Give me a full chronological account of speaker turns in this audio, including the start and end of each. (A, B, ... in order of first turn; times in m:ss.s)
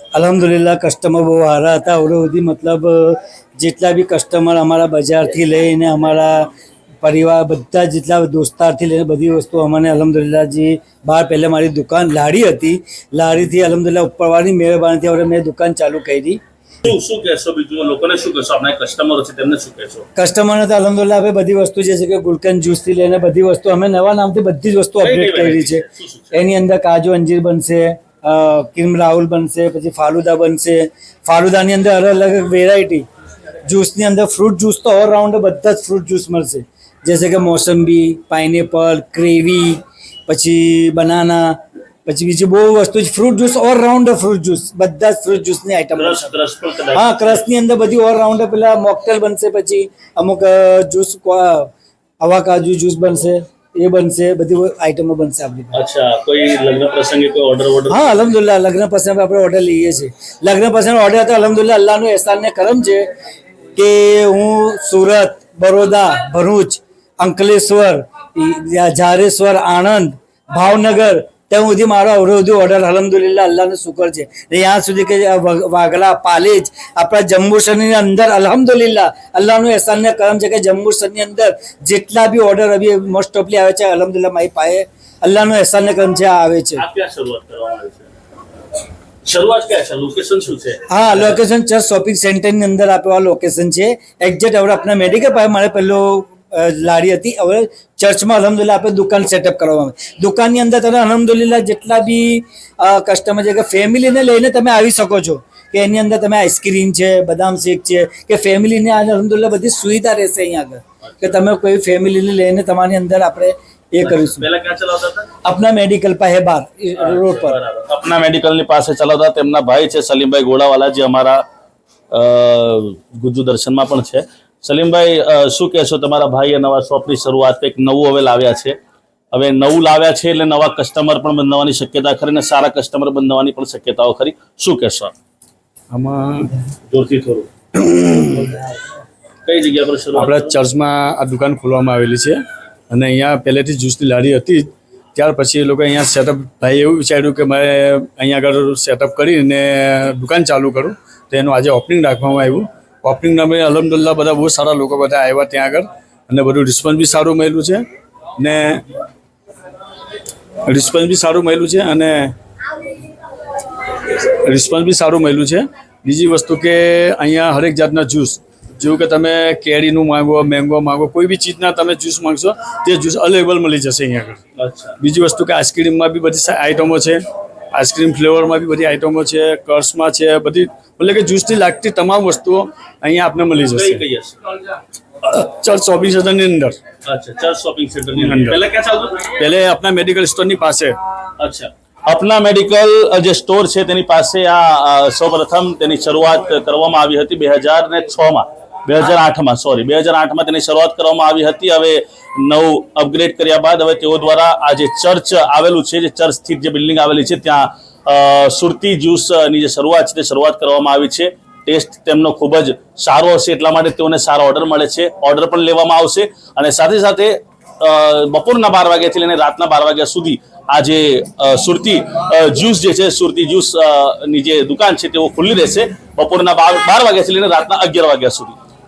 0:00.1-0:06.5 A
0:07.0-0:16.4 A
0:16.8-0:20.1 B
0:20.2-0:33.0 A
0:25.0-0:26.4 B
0:33.7-0:46.4 A
0:46.0-0:47.4 B
0:46.9-0:51.7 A
0:52.2-0:55.8 A
0:55.7-0:58.2 B
0:57.9-1:03.0 A
1:03.8-1:26.8 A
1:26.8-1:28.1 B
1:29.3-1:31.4 B
1:30.9-1:54.5 A
1:54.0-1:55.3 B
1:55.4-1:57.6 A
1:57.0-2:01.4 B
2:02.1-2:08.8 B
2:09.3-2:15.1 B
2:15.9-2:16.6 C
2:16.9-2:17.5 B
2:17.9-2:18.2 C
2:19.4-2:20.6 B
2:20.2-2:37.8 C
2:38.4-2:38.8 C
2:40.7-2:42.3 C
2:44.1-2:54.4 C
2:54.6-2:55.0 B
2:55.0-2:57.2 C
2:57.7-3:04.0 C
3:03.7-3:04.4 B
3:05.2-3:06.8 C
3:07.1-3:09.4 B
3:08.2-3:08.6 C
3:09.4-3:11.0 C
3:11.4-3:48.6 B